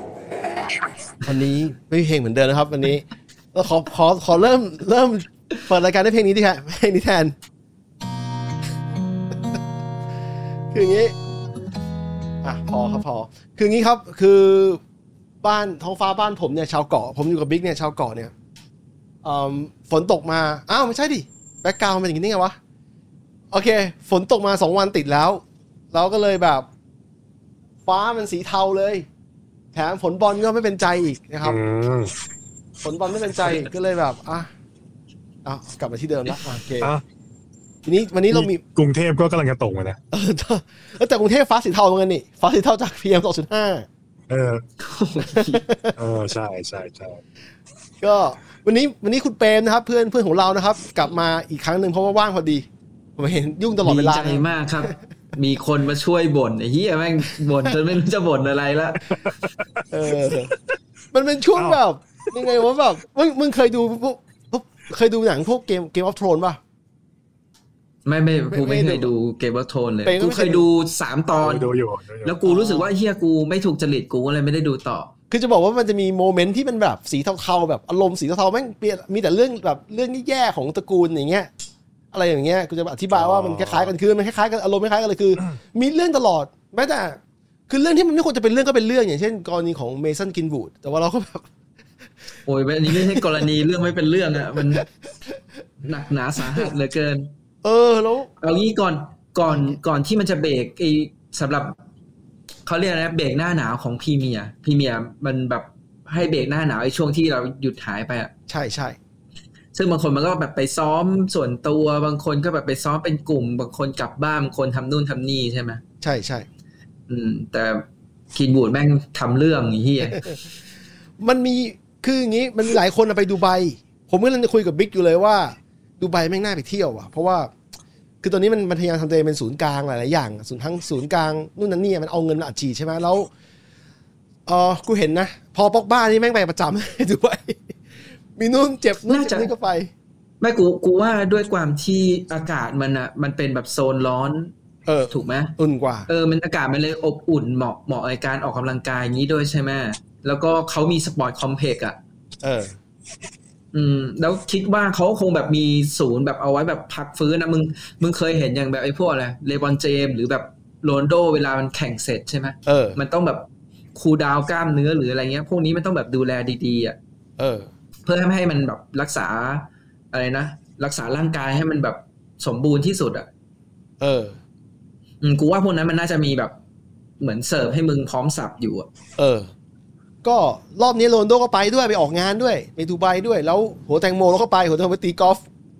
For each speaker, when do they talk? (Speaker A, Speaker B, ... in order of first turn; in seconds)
Speaker A: 1.2-7.3, 10.7-11.1, 12.4-14.8, 15.4-18.3, 19.2-22.6, 23.5-26.7, 27.8-29.1, 29.7-31.6, 32.8-34.5, 35.4-36.9, 37.8-38.6, 40.1-43.9, 45.3-46.0, 48.0-52.6, 53.2-54.4, 59.9-60.5, 61.1-66.6, 68.5-69.1, 70.0-70.7, 72.5-72.9, 75.3-81.5, 82.1-91.5, 92.9-93.3, 97.6-98.3, 108.5-109.0, 116.0-116.5, 120.1-120.4, 121.2-127.5, 128.2-133.3, 134.4-137.8, 138.3-139.9, 144.8-146.1, 152.4-152.8, 162.7-163.0, 167.4-167.7, 174.0-174.4, 179.2-179.5, 180.2-185.4
Speaker B: 31.4-32.1, 38.3-40.0, 44.3-44.6, 46.0-47.2, 71.4-72.4, 83.1-83.9
Speaker C: 44.8-45.6, 53.8-59.2, 68.0-71.7, 72.2-75.1, 92.5-94.8, 95.8-97.3, 98.4-101.8, 102.7-108.3, 109.7-115.8, 117.1-120.3, 139.1-139.5, 140.4-144.5, 145.1-145.5, 146.1-152.0, 153.7-167.0, 168.1-173.3, 175.2-176.5, 177.2-178.9